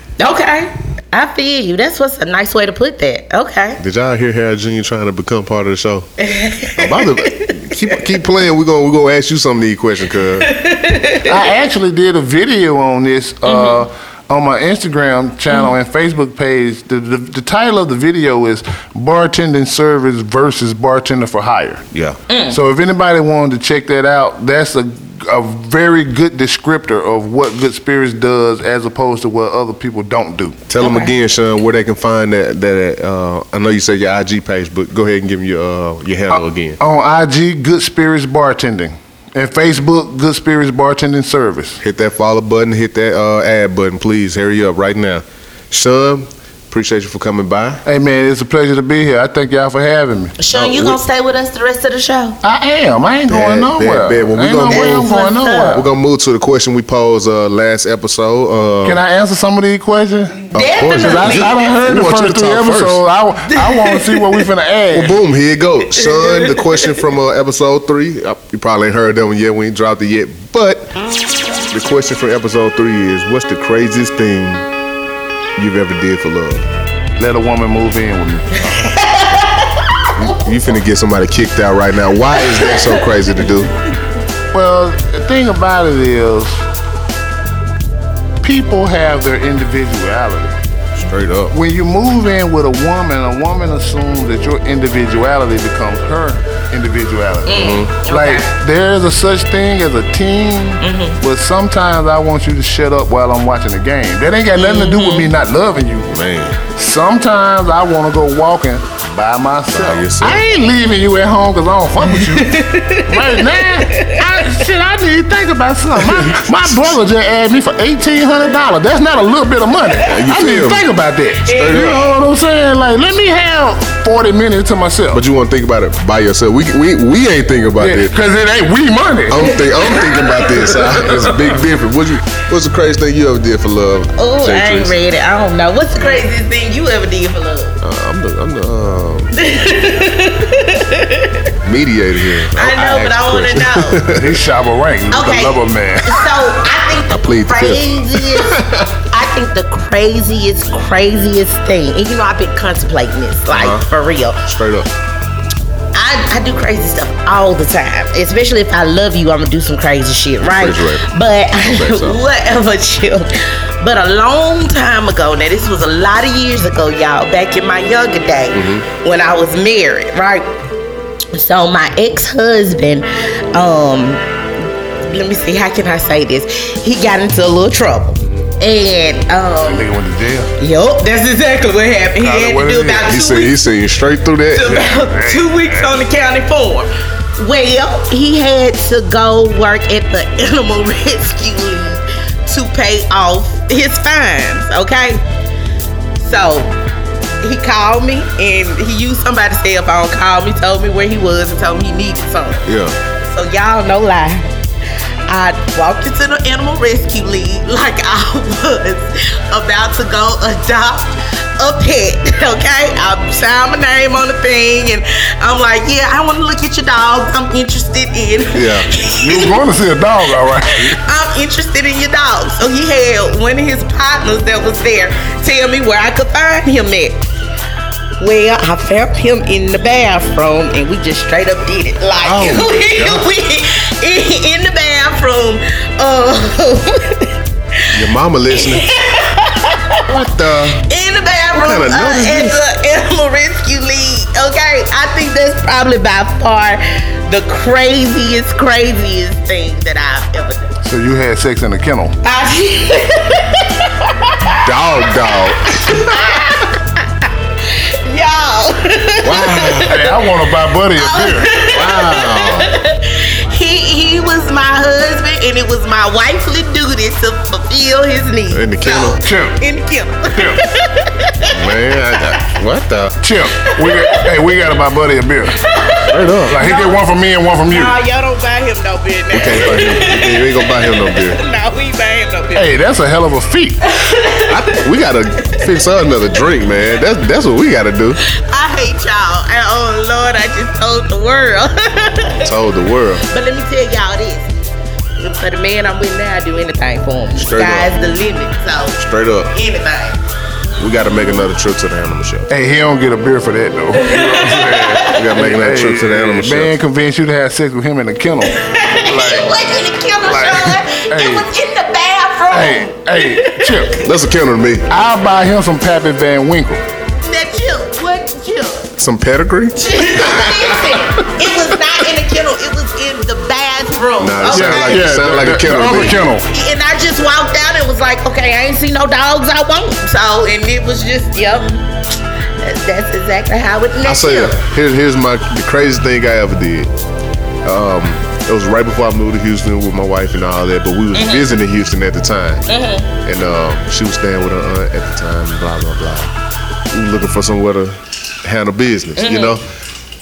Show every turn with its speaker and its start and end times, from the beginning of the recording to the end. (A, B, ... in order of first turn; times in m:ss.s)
0:00.2-0:03.8 A
0:03.8-0:06.1 B
0:06.2-0:07.9 A
0:06.8-0:10.5 B
0:10.4-0:11.3 A
0:11.2-0:21.8 C
0:13.4-0:13.8 A
0:21.9-0:22.2 B
0:22.3-0:22.6 A
0:22.5-0:30.6 C
0:30.7-0:36.8 B
0:30.8-0:31.1 A
0:36.3-0:41.8 C
0:41.8-0:47.8 B
0:47.8-0:50.4 C
0:50.4-0:52.4 A
0:50.5-0:51.0 B
0:52.4-0:55.9 C
0:53.3-0:59.0 B
0:54.6-0:55.8 A
0:58.8-1:00.4 C
1:00.4-1:01.6 A
1:00.5-1:03.0 B
1:00.9-1:05.2 C
1:03.5-1:04.4 A
1:04.9-1:10.9 B
1:06.0-1:06.8 A
1:11.7-1:14.6 B
1:15.6-1:16.6 B
1:17.2-1:18.8 C
1:18.7-1:19.9 A
1:20.1-1:23.7 B
1:22.3-1:23.1 A
1:24.5-1:26.6 C
1:28.4-1:30.6 C
1:30.9-1:31.6 B
1:31.5-1:46.2 C
1:37.4-1:38.5 A
1:37.5-1:37.9 B
1:40.8-1:41.2 A
1:44.6-1:45.3 A
1:46.1-1:46.6 B
1:46.7-1:52.6 C
1:49.7-1:50.4 B
1:52.0-1:54.2 A
1:53.1-2:05.2 C
1:56.0-1:57.0 B
2:00.0-2:00.8 B
2:01.4-2:02.0 A
2:01.4-2:02.1 B
2:05.1-2:08.2 B
2:07.8-2:09.7 C
2:09.3-2:15.0 B
2:09.6-2:11.1 A
2:14.2-2:17.8 A
2:16.0-2:16.3 B
2:17.8-2:19.4 B
2:19.4-2:21.5 A
2:21.6-2:24.4 B
2:22.6-2:24.0 A
2:24.1-2:26.2 C
2:25.1-2:34.4 A
2:27.1-2:28.9 B
2:33.5-2:33.9 B
2:34.4-2:34.9 B
2:35.9-2:50.5 A
2:40.4-2:42.2 B
2:48.5-2:48.9 B
2:51.3-2:54.2 A
2:55.0-2:59.9 A
2:59.6-3:00.5 C
3:00.6-3:03.6 A
3:02.2-3:03.1 C
3:03.0-3:04.8 B
3:04.5-3:15.2 A
3:04.6-3:05.9 C
3:16.2-3:16.8 A
3:17.4-3:22.7 A
3:22.6-3:23.0 B
3:23.2-3:24.5 A
3:25.3-3:39.6 A
3:38.5-3:38.9 B
3:39.2-3:41.0 C
3:40.7-3:47.2 A
3:48.2-3:57.9 A
3:52.2-3:53.3 B
3:57.9-3:58.9 B
3:58.5-4:00.1 A
4:00.1-4:00.8 B
4:00.8-4:10.7 A
4:01.5-4:02.6 B
4:10.8-4:12.2 C
4:12.2-4:20.1 A
4:14.6-4:16.1 B
4:19.2-4:20.0 B
4:19.9-4:21.5 C
4:20.9-4:32.3 A
4:21.7-4:22.7 B
4:28.5-4:29.2 B
4:29.2-4:29.6 C
4:30.3-4:30.6 C
4:31.5-4:33.2 B
4:33.2-4:35.6 C
4:33.8-4:34.2 A
4:35.6-4:37.0 A
4:36.1-4:36.6 B
4:36.5-4:38.0 C
4:37.7-4:42.8 A
4:39.3-4:41.4 B
4:42.6-4:43.8 C
4:44.0-4:44.8 A
4:44.5-4:48.2 B
4:48.2-4:52.5 A
4:52.4-4:53.2 B
4:53.3-4:54.5 A
4:55.2-5:00.2 A
4:57.4-4:58.0 B
4:59.0-4:59.5 B
5:00.8-5:02.5 B
5:00.8-5:01.3 A
5:02.5-5:09.5 C
5:03.9-5:05.2 A
5:05.0-5:06.7 B
5:08.5-5:14.1 A
5:10.2-5:11.5 C
5:12.5-5:14.0 C
5:14.0-5:14.9 B
5:14.9-5:16.8 C
5:17.2-5:18.9 A
5:19.0-5:21.1 B
5:19.8-5:25.1 A
5:24.2-5:26.2 B
5:24.5-5:26.5 C
5:26.5-5:31.9 A
5:32.6-5:34.6 A
5:34.0-5:36.9 B
5:37.6-5:42.7 B
5:41.1-5:41.5 A
5:42.7-5:43.1 A
5:43.2-5:46.3 B
5:46.9-5:49.6 B
5:49.2-5:49.6 A